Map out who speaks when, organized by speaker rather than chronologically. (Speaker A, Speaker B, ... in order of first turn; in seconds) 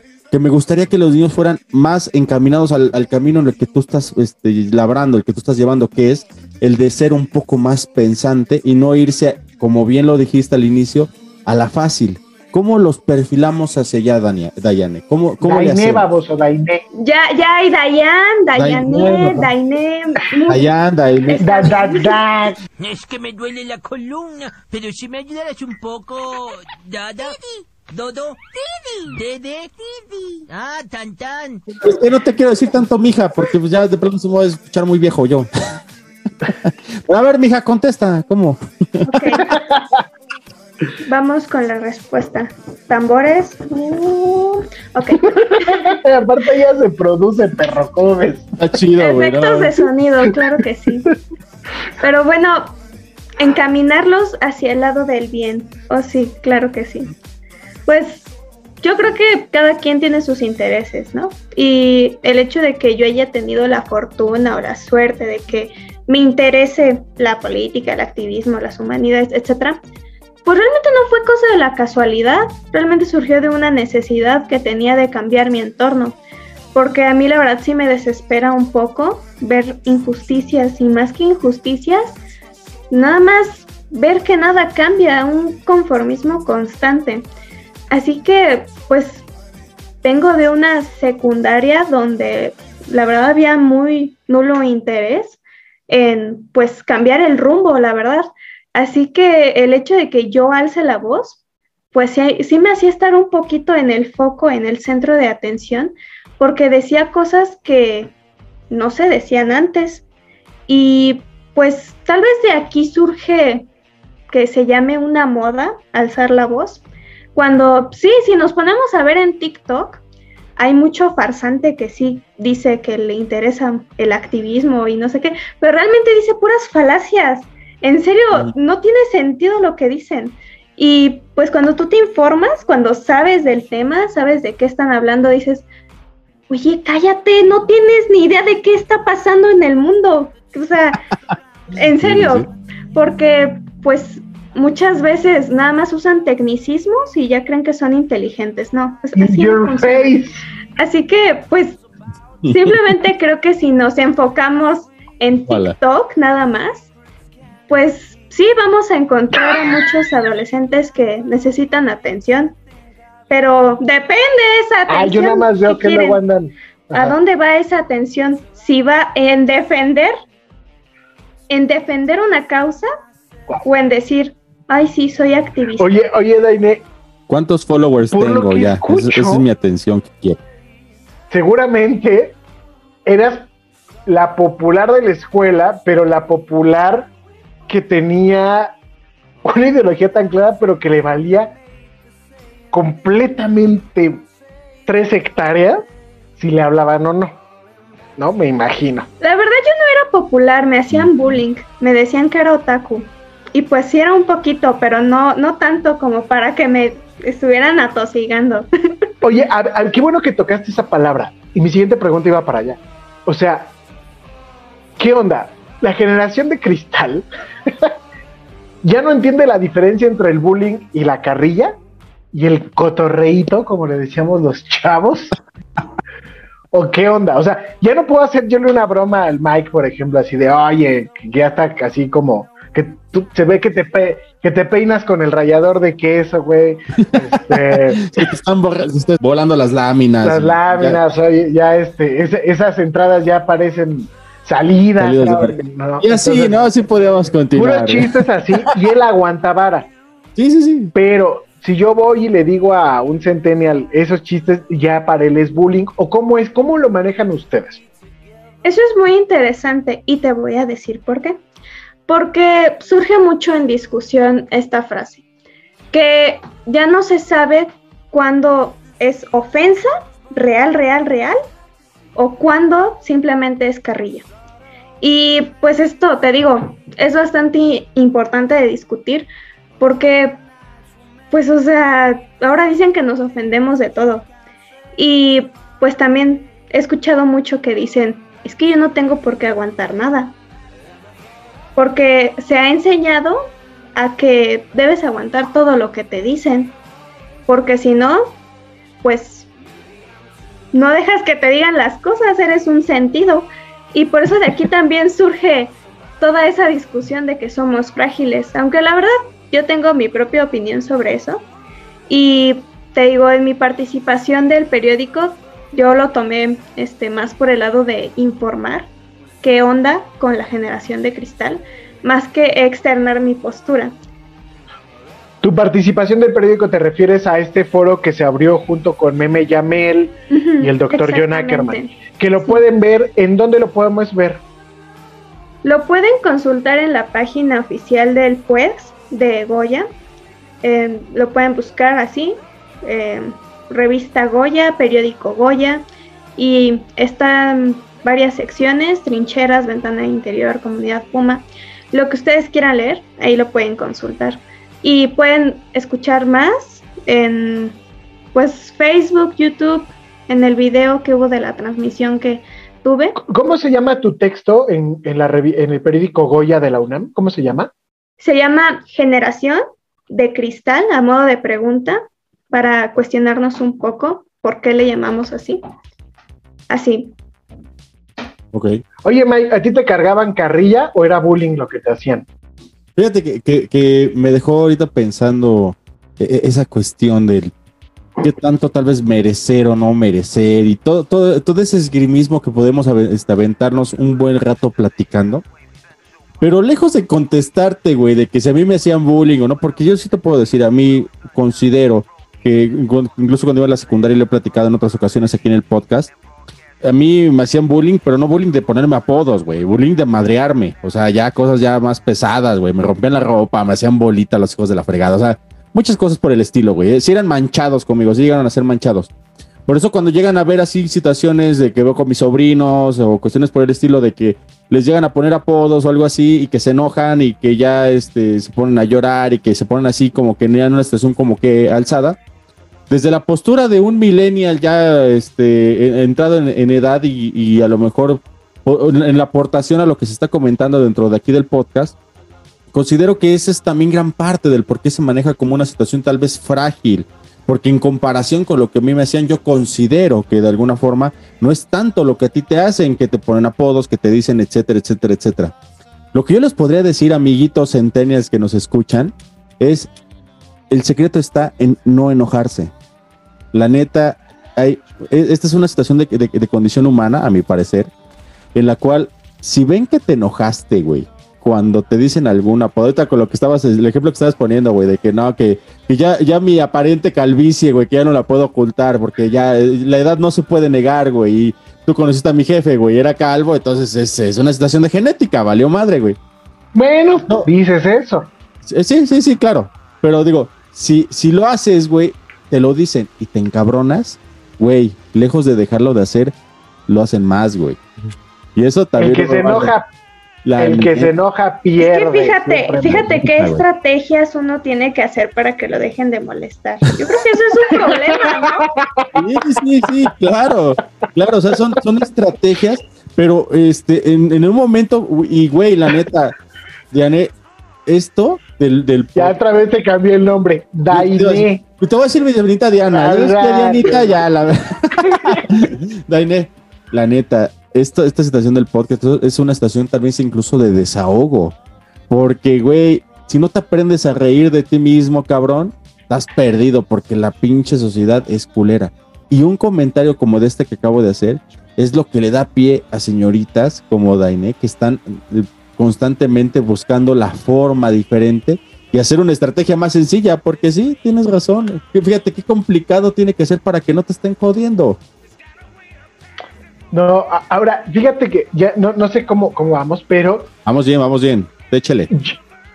Speaker A: 0.3-16.1, 18.5-19.5, 20.5-21.7, 31.8-35.5, 36.6-39.1, 48.6-49.7, 142.0-142.4, 152.4-152.7, 155.5-155.8, 177.3-180.4, 237.0-241.0, 245.0-248.1, 250.3-250.9, 378.5-378.8, 382.9-387.5, 388.2-395.4, 396.4-406.1, 406.8-419.1, 419.6-432.2, 432.9-441.9, 442.7-455.5, 456.1-459.9, 460.7-462.7, 463.5-467.9, 468.5-486.2, 488.6-496.3, 496.9-497.8, 498.6-499.7, 500.4-501.1, 502.8-503.6, 509.1-516.3, 516.9-517.3, 517.9-519.4, 520.9-531.5, 532.1-555.0, 560.6-562.1
Speaker B: 15.4-16.8, 21.4-22.6, 39.4-40.0, 45.4-48.5, 149.2-150.4, 164.9-167.2, 175.8-176.8, 178.1-179.4, 181.3-182.3, 183.1-183.4, 184.1-187.1, 187.7-188.7, 189.4-191.5, 192.7-194.2, 194.8-195.8, 196.4-197.4, 198.2-199.1, 209.2-213.7, 215.0-217.9, 218.8-221.7, 222.3-225.3, 226.7-238.1, 240.2-246.7, 247.5-249.9, 250.9-257.8, 325.4-334.4, 363.2-367.7, 379.0-382.2, 486.7-488.3, 499.0-499.9, 500.6-503.2, 507.8-509.1, 519.1-521.6, 522.9-524.2, 525.0-525.4, 556.9-560.5, 562.1-562.4
Speaker C: 16.9-20.7, 21.2-22.2, 39.0-39.5, 41.0-45.9, 49.0-51.1, 52.0-52.8, 53.4-57.1, 57.9-58.2, 58.8-69.8, 70.4-76.2, 76.7-82.2, 82.9-87.2, 87.9-89.2, 90.0-101.4, 101.9-108.1, 108.7-110.0, 110.7-113.7, 114.3-116.8, 117.3-120.0, 120.6-135.6, 136.5-141.0, 141.7-150.1, 150.8-151.8, 152.5-156.9, 157.7-162.5, 163.3-166.2, 166.9-170.1, 171.5-172.8, 173.6-175.9, 199.2-208.7, 258.6-261.4, 262.1-265.2, 265.9-271.4, 272.1-274.2, 275.0-279.3, 279.8-280.4, 281.3-284.2, 284.9-290.3, 291.8-296.7, 297.5-298.4, 299.0-299.5, 300.7-311.4, 312.1-318.9, 319.4-323.9, 330.3-332.6, 335.6-339.9, 340.6-345.8, 346.4-357.8, 358.3-363.1, 368.2-375.6, 376.7-377.1, 501.8-508.6
Speaker D: 22.8-31.6